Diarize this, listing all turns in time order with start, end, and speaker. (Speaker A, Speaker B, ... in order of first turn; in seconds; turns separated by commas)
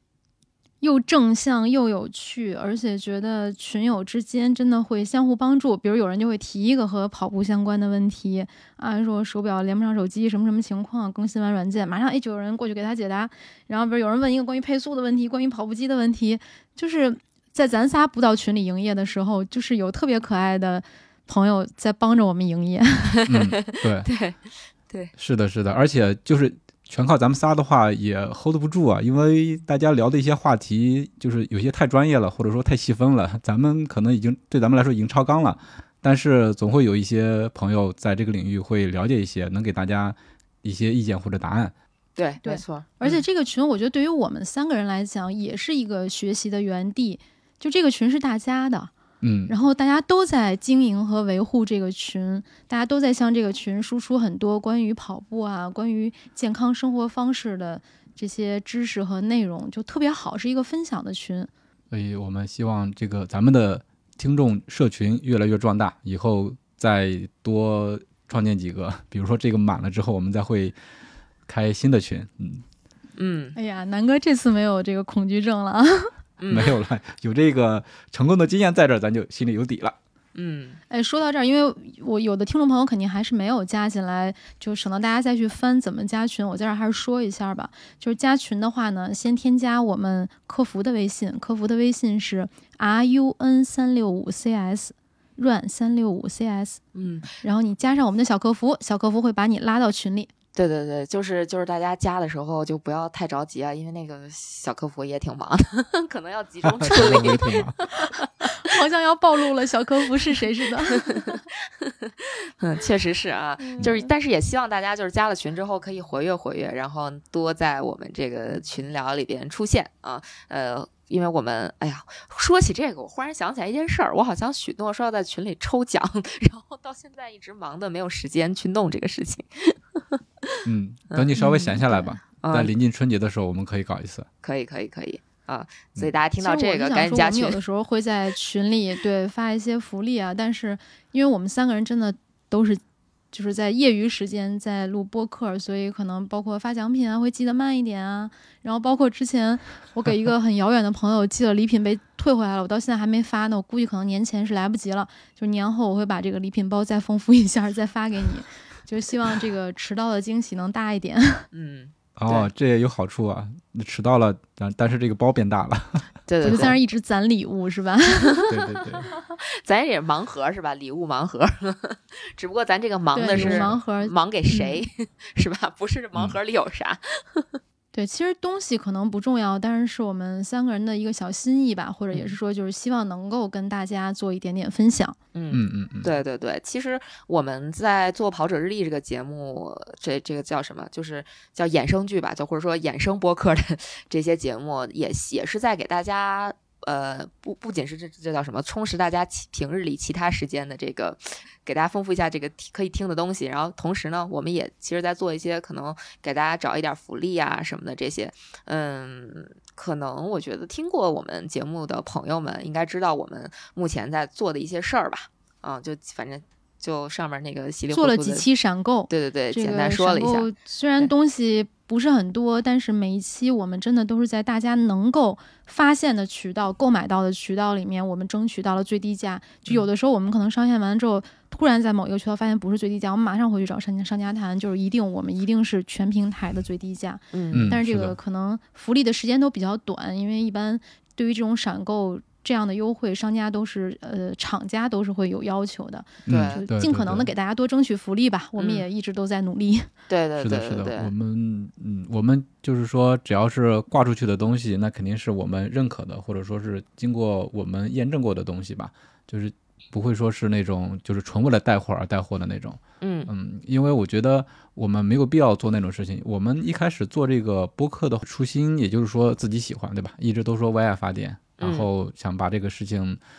Speaker A: 0.8-23.2, Speaker B: 23.2-25.1, Speaker C: 23.3-24.1, Speaker C: 25.2-41.7, Speaker B: 42.2-43.2, Speaker A: 42.4-48.9, Speaker C: 49.2-49.5, Speaker A: 49.5-61.5, Speaker C: 61.9-70.7, Speaker C: 71.5-72.6, Speaker B: 73.2-73.5, Speaker A: 73.5-76.1, Speaker B: 76.4-76.7, Speaker C: 76.5-80.0, Speaker B: 80.3-80.8, Speaker A: 80.9-96.8, Speaker B: 96.9-97.3, Speaker A: 97.4-100.3, Speaker B: 100.5-108.5, Speaker C: 106.6-107.8, Speaker A: 107.9-111.4, Speaker B: 110.9-132.7, Speaker A: 113.6-114.1, Speaker C: 130.6-134.3, Speaker B: 134.4-137.6, Speaker A: 136.4-142.8, Speaker A: 143.3-161.5, Speaker B: 161.5-162.5, Speaker C: 162.2-166.7, Speaker B: 166.3-166.8, Speaker A: 166.4-168.4, Speaker B: 168.2-168.5, Speaker C: 168.5-169.1, Speaker B: 169.4-177.6, Speaker A: 173.1-174.8, Speaker C: 173.3-173.8, Speaker A: 177.9-185.2, Speaker B: 185.3-218.4, Speaker C: 185.5-186.1, Speaker A: 217.9-249.9, Speaker B: 219.1-221.1, Speaker B: 237.3-237.8, Speaker C: 237.5-238.2, Speaker C: 246.2-247.3, Speaker B: 246.3-246.6, Speaker B: 248.6-248.8, Speaker B: 250.1-251.1, Speaker C: 250.4-273.2, Speaker B: 263.0-263.3, Speaker B: 271.6-271.9